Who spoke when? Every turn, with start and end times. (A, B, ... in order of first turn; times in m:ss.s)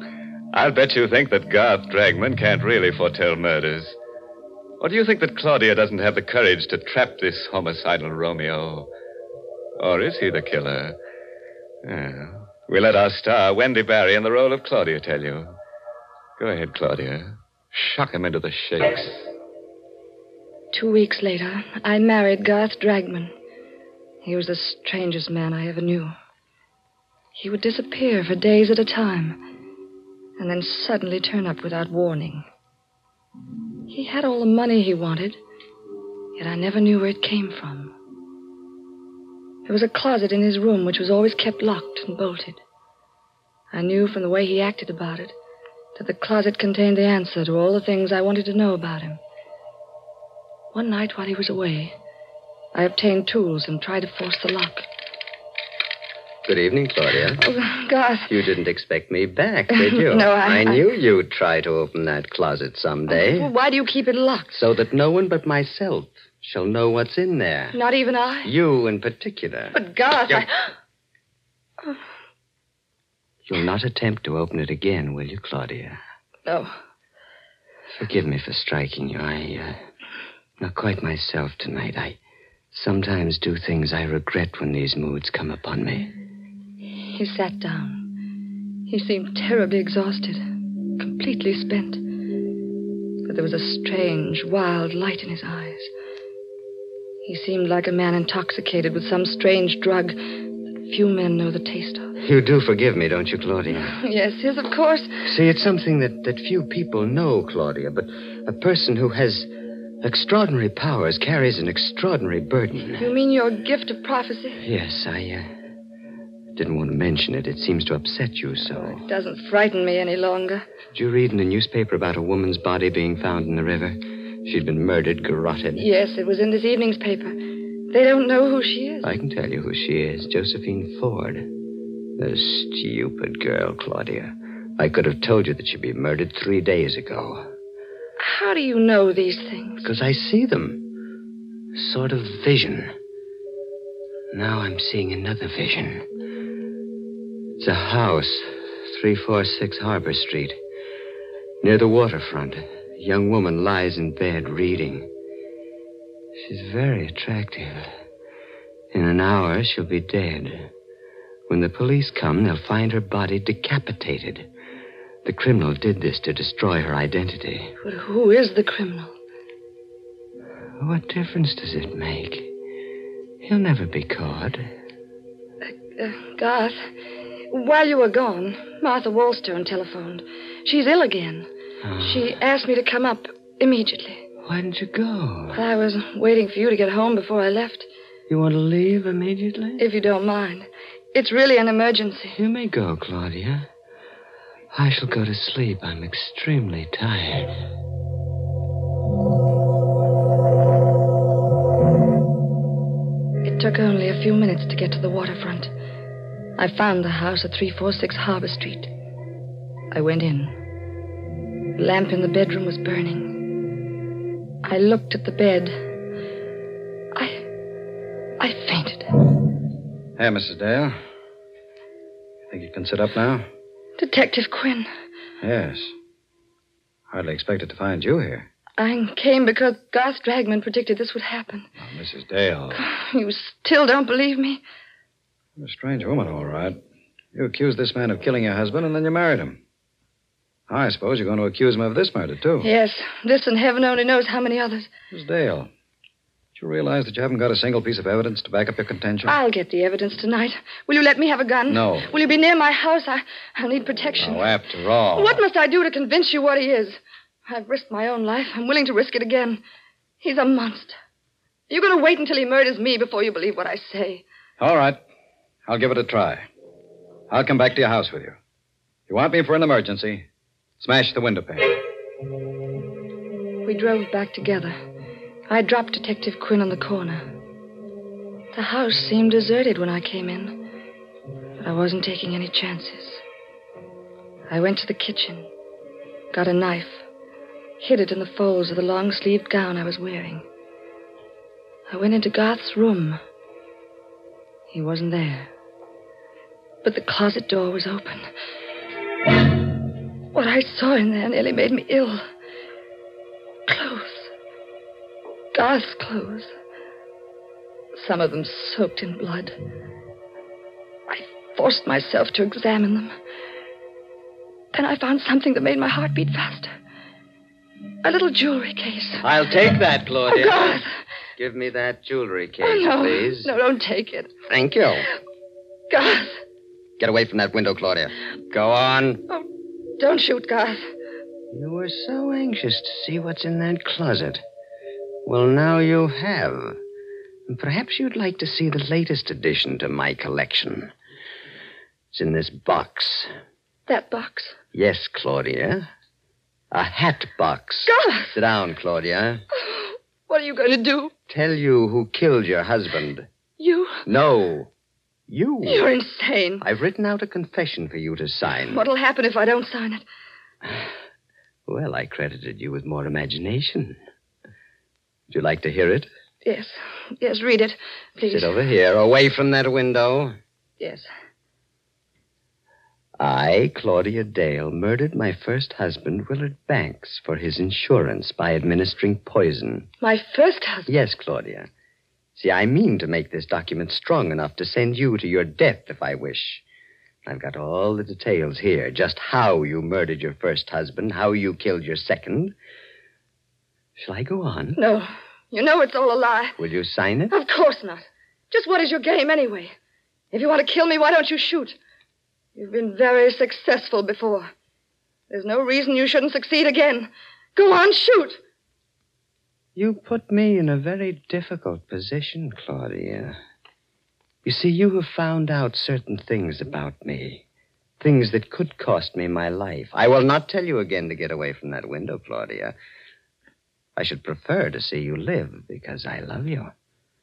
0:00.5-0:04.0 A
0:04.8-0:08.9 A
0:09.8-0:11.0 A
0:11.8-0:15.6 A
0:16.4-0:19.3 A
0:20.7-0:23.3 B
0:24.2-0:26.1 B
0:27.4-0:29.4 B
0:30.4-0:32.5 B
0:33.9-0:35.4 B
0:36.4-0:37.9 B
0:39.7-0:42.6 B
0:43.7-0:45.4 B
0:46.0-0:49.2 B
0:50.7-0:51.9 B
0:52.7-0:54.9 B
0:56.4-0:57.4 C
0:57.4-0:58.3 B
0:58.3-1:03.5 C
0:59.7-1:00.9 B
1:03.1-1:04.6 B
1:04.6-1:07.8 C
1:07.7-1:08.5 B
1:08.4-1:09.8 C
1:09.7-1:10.7 B
1:13.5-1:16.0 C
1:16.5-1:16.7 B
1:18.0-1:19.8 C
1:20.6-1:22.2 C
1:22.7-1:26.1 C
1:27.0-1:28.1 B
1:28.9-1:30.4 B
1:31.0-1:32.0 B
1:33.3-1:35.9 B
1:37.2-1:40.2 B
1:40.7-1:42.1 B
1:42.2-1:44.0 C
1:43.9-1:45.2 B
1:45.2-1:49.5 C
1:50.0-1:53.1 C
1:53.0-1:54.6 B
1:54.6-1:55.5 C
1:56.6-1:59.0 C
1:58.8-2:00.6 B
2:00.9-2:05.9 C
2:05.8-2:07.4 B
2:07.9-2:09.1 B
2:09.0-2:11.5 C
2:12.2-2:17.5 C
2:18.2-2:19.9 B
2:19.8-2:20.9 C
2:21.8-2:22.9 C
2:24.3-2:26.1 C
2:27.6-2:30.6 C
2:31.6-2:35.1 C
2:36.4-2:37.9 C
2:38.9-2:40.7 C
2:41.5-2:44.5 C
2:45.2-2:47.7 C
2:47.8-2:49.1 B
2:50.8-2:52.5 C
2:53.4-2:54.7 C
2:55.7-2:56.8 B
2:57.5-3:01.5 B
3:01.8-3:02.3 C
3:02.0-3:04.2 B
3:04.4-3:05.6 C
3:05.5-3:07.9 B
3:08.3-3:09.8 C
3:09.8-3:12.4 B
3:12.4-3:13.7 C
3:14.7-3:17.6 C
3:23.4-3:25.7 B
3:26.6-3:28.9 B
3:29.9-3:30.6 B
3:31.8-3:33.4 B
3:34.6-3:35.8 B
3:37.2-3:37.5 B
3:38.4-3:39.1 B
3:40.2-3:41.0 D
3:42.5-3:43.4 D
3:44.0-3:44.9 B
3:45.4-3:45.9 D
3:47.1-3:48.5 D
3:48.8-3:51.7 B
3:51.8-3:52.8 D
3:52.7-3:54.6 B
3:55.6-3:56.8 D
3:57.3-3:59.6 D
4:00.7-4:02.7 D
4:02.6-4:04.9 B
4:05.1-4:05.7 D
4:06.6-4:09.4 D
4:09.2-4:14.5 B
4:11.7-4:12.1 D
4:14.2-4:15.4 D
4:15.2-4:19.6 B
4:20.2-4:21.0 B
4:21.7-4:24.2 B
4:24.6-4:25.0 D
4:25.6-4:26.5 D
4:27.3-4:28.4 D
4:29.1-4:30.3 D
4:30.8-4:31.8 D
4:33.6-4:34.8 B
4:35.5-4:37.3 B
4:38.5-4:40.7 B
4:41.6-4:43.2 B
4:44.5-4:45.5 B
4:46.3-4:47.0 B
4:47.8-4:50.4 B
4:51.9-4:53.2 B
4:54.7-4:55.5 B
4:56.8-4:58.3 B
5:00.3-5:02.2 B
5:03.7-5:04.3 B
5:05.5-5:06.5 B
5:08.0-5:09.6 B
5:11.1-5:13.1 B
5:14.7-5:16.7 B
5:18.0-5:19.2 B
5:19.2-5:20.8 C
5:20.3-5:20.9 B
5:21.4-5:23.5 C
5:22.6-5:24.3 B
5:24.5-5:25.1 C
5:25.9-5:26.4 B
5:27.0-5:29.2 C
5:30.0-5:30.8 B
5:31.5-5:34.4 C
5:35.3-5:36.8 C
5:37.5-5:40.9 C
5:42.1-5:43.3 C
5:43.9-5:44.6 B
5:44.7-5:45.8 C
5:46.7-5:49.4 C
5:47.9-5:48.4 B
5:49.7-5:51.1 B
5:51.3-5:53.3 C
5:53.6-5:54.0 B
5:54.1-5:54.7 C
5:55.3-5:55.9 C
5:55.7-5:56.6 B
5:56.6-5:58.8 C
5:58.7-6:00.0 B
6:01.7-6:04.0 C
6:05.3-6:06.1 C
6:06.4-6:08.6 B
6:08.3-6:10.4 C
6:10.8-6:11.1 B
6:13.2-6:19.9 C
6:20.0-6:20.9 B
6:20.9-6:21.7 C
6:22.4-6:26.6 C
6:27.3-6:32.6 C
6:34.0-6:34.8 C
6:34.8-6:36.6 B
6:36.6-6:37.4 C
6:37.3-6:39.7 B
6:40.3-6:41.8 B
6:42.6-6:44.5 B
6:45.3-6:48.4 B
6:49.8-6:53.4 C
6:54.4-6:57.4 C
6:58.0-7:02.8 C
7:04.0-7:06.7 C